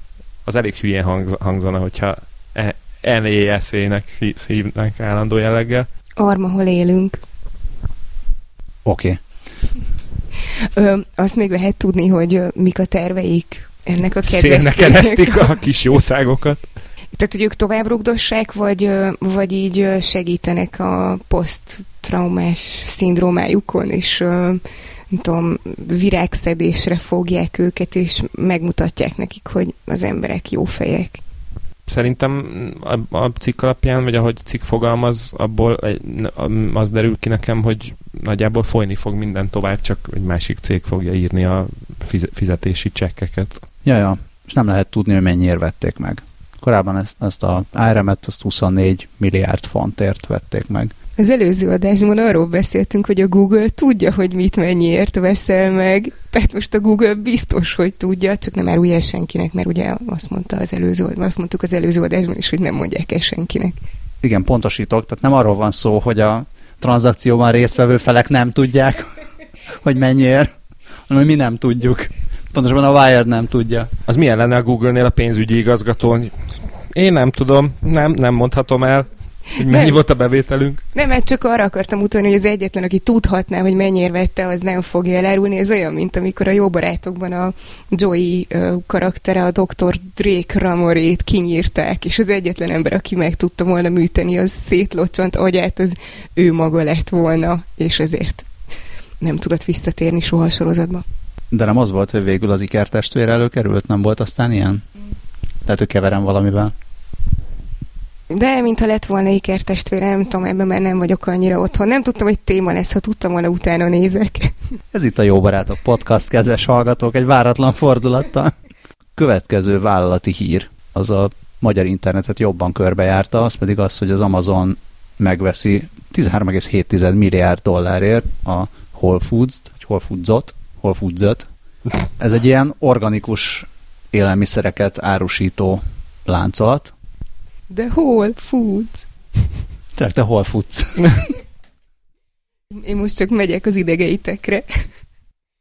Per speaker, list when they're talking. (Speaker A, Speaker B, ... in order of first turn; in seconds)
Speaker A: 0.5-5.9, 14.2-16.7, 31.9-43.7, 74.1-80.8
Speaker B: 6.2-7.2, 10.6-15.6, 17.1-31.2, 51.2-63.8, 79.6-80.0, 80.9-98.5, 99.2-101.0, 108.3-114.5, 137.7-139.1, 142.8-144.8
Speaker C: 8.8-9.2, 43.8-50.9, 64.2-69.1, 69.8-70.5, 71.1-73.9, 101.5-104.8, 105.7-106.7, 114.9-118.5, 119.2-131.5, 132.2-136.9, 140.0-141.2